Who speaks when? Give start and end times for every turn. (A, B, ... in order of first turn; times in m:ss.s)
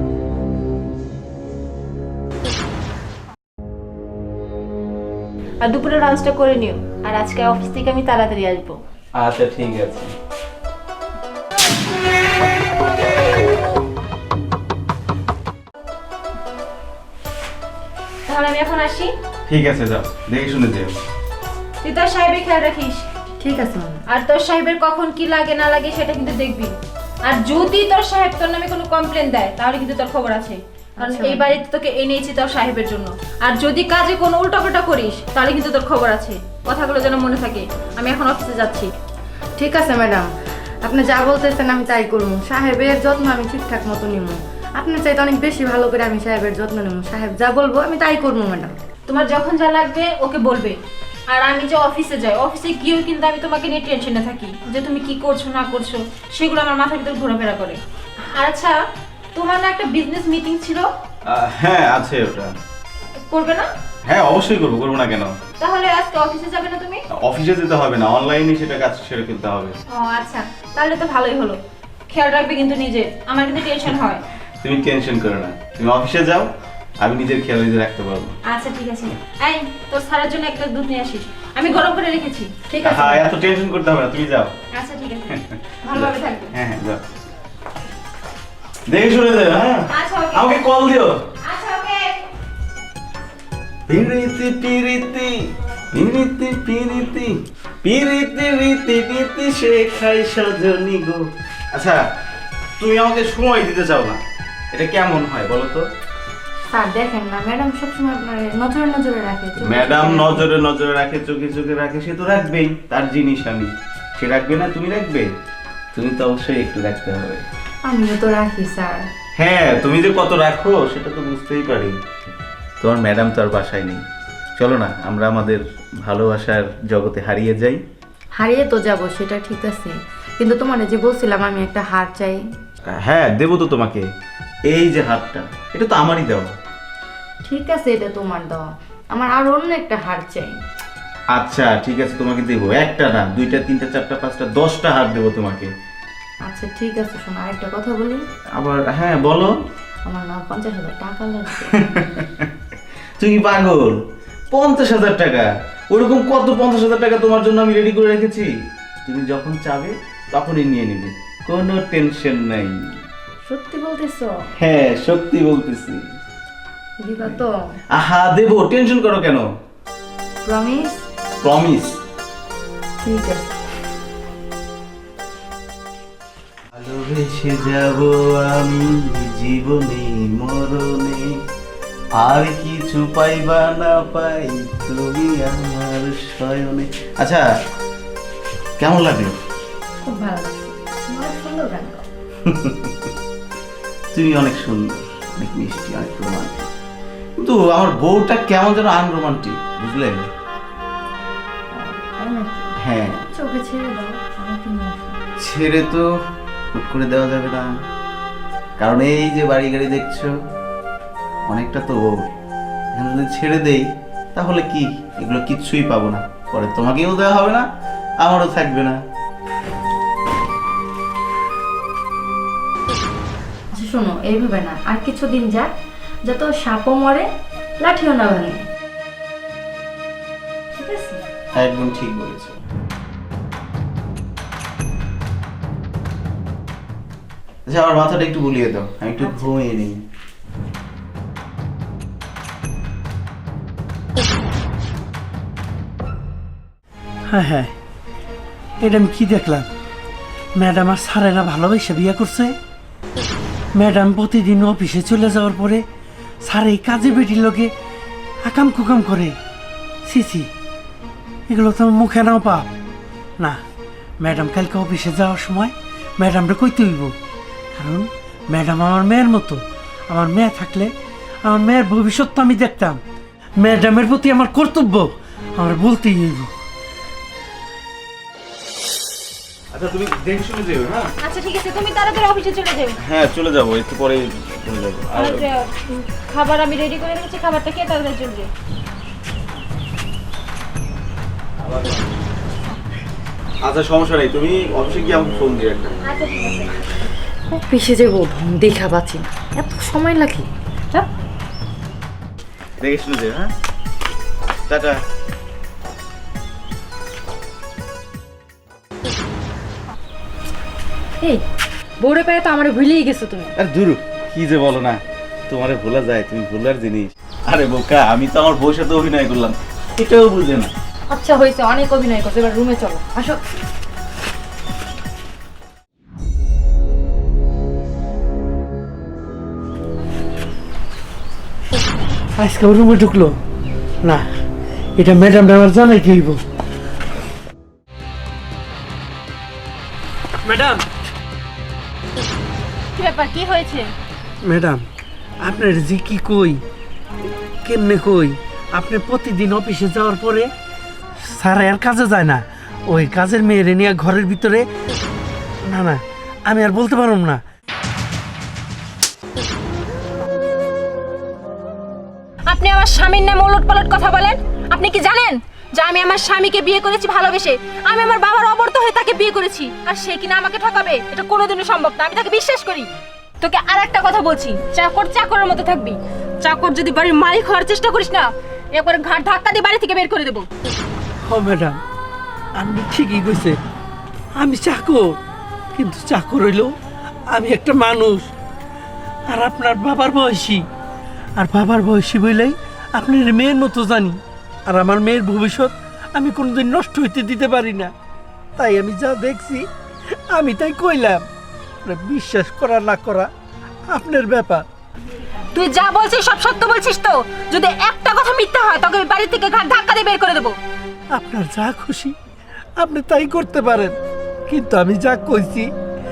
0:05.6-0:08.8 A
0:09.2-0:10.1 B
0:18.3-0:19.1 A
0:19.5-0:20.9 B
0:21.8-0:23.1 A
0:23.4-0:24.0 C
0:24.1-0:38.9 A
0:31.0-0:31.5 C
0:39.6-0:40.3 C
0:40.8-0:48.7 C
0:49.1-0:50.8 A
0:51.3-0:57.8 A
0:58.3-0:58.8 A
0:59.3-1:00.9 A
1:01.3-1:02.5 B
1:03.2-1:03.7 A
1:04.1-1:05.4 B
1:05.6-1:07.0 A
1:07.2-1:09.8 B
1:09.9-1:14.2 A
1:14.6-1:16.5 B
1:17.0-1:18.4 B
1:18.4-1:22.6 A
1:22.7-1:23.2 C
1:22.8-1:24.5 B
1:24.7-1:26.5 A
1:25.9-1:27.0 B
1:28.9-1:29.8 B
1:29.9-1:30.5 A
1:30.3-1:31.2 B
1:31.4-1:32.2 A
1:33.9-1:35.3 B
1:35.9-1:41.2 B
1:41.7-1:42.0 B
1:42.8-1:44.2 B
1:44.7-1:45.8 B
1:46.7-1:50.5 C
1:49.6-1:55.3 B
1:55.9-1:57.4 B
1:57.8-1:59.1 C
1:59.4-2:02.0 B
2:02.8-2:04.0 B
2:04.6-2:07.8 B
2:08.4-2:12.4 C
2:13.0-2:14.0 B
2:14.7-2:16.5 B
2:17.4-2:20.6 C
2:21.3-2:25.7 B
2:26.5-2:28.2 C
2:28.6-2:29.5 B
2:30.1-2:32.0 C
2:33.2-2:34.0 B
2:34.5-2:38.5 B
2:39.1-2:42.8 B
2:43.5-2:44.4 C
2:44.6-2:46.0 B
2:47.0-2:47.5 C
2:47.9-2:49.4 B
2:50.4-2:51.0 C
2:51.4-2:52.0 B
2:53.0-2:53.5 C
2:56.8-3:01.3 B
3:02.2-3:07.4 B
3:08.8-3:09.4 B
3:10.0-3:12.0 C
3:12.5-3:12.9 B
3:14.1-3:16.7 B
3:17.4-3:20.3 B
3:21.7-3:22.7 C
3:22.8-3:23.2 B
3:23.3-3:25.2 C
3:25.4-3:26.0 B
3:26.8-3:27.7 B
3:28.8-3:30.3 B
3:31.5-3:32.3 B
3:33.0-3:37.7 B
3:38.2-3:39.0 B
3:43.7-3:45.7 C
3:46.2-3:47.3 C
3:47.8-3:48.6 C
3:50.8-3:51.2 C
3:51.5-3:52.6 B
3:57.7-4:00.0 B
4:07.3-4:07.7 D
4:08.8-4:09.7 D
4:10.6-4:12.6 D
4:13.7-4:15.9 D
4:16.4-4:17.7 D
4:18.4-4:19.4 D
4:20.1-4:20.5 D
4:21.5-4:22.7 D
4:24.2-4:27.2 D
4:27.7-4:33.0 D
4:33.6-4:36.5 D
4:39.7-4:41.1 B
4:41.2-4:43.0 A
4:43.0-4:45.4 B
4:45.2-4:48.5 A
4:51.6-4:52.1 B
4:53.7-4:56.0 B
4:56.0-4:56.9 A
4:57.5-5:01.1 C
5:02.8-5:03.5 B
5:04.7-5:05.0 B
5:12.0-5:13.5 C
5:13.6-5:20.7 B
5:21.1-5:23.4 C
5:32.4-5:33.4 D
5:34.0-5:34.3 D
5:35.0-5:36.4 D
5:40.4-5:40.9 D
5:43.0-5:43.9 A
5:44.4-5:44.9 D
5:45.4-5:46.6 D
5:47.6-5:50.5 D
5:51.2-5:54.7 D
5:55.6-5:57.4 D
6:02.5-6:20.5 A
6:21.2-6:21.8 D
6:22.6-6:23.6 D
6:24.4-6:25.2 D
6:25.8-6:26.7 D
6:27.3-6:28.3 D
6:29.3-6:30.7 D
6:31.4-6:37.9 D
6:38.6-6:41.3 D
6:41.8-6:43.3 D
6:43.9-6:44.7 D
6:45.5-6:50.6 A
6:51.1-6:52.2 D
6:52.8-6:54.0 D
6:54.5-6:55.7 D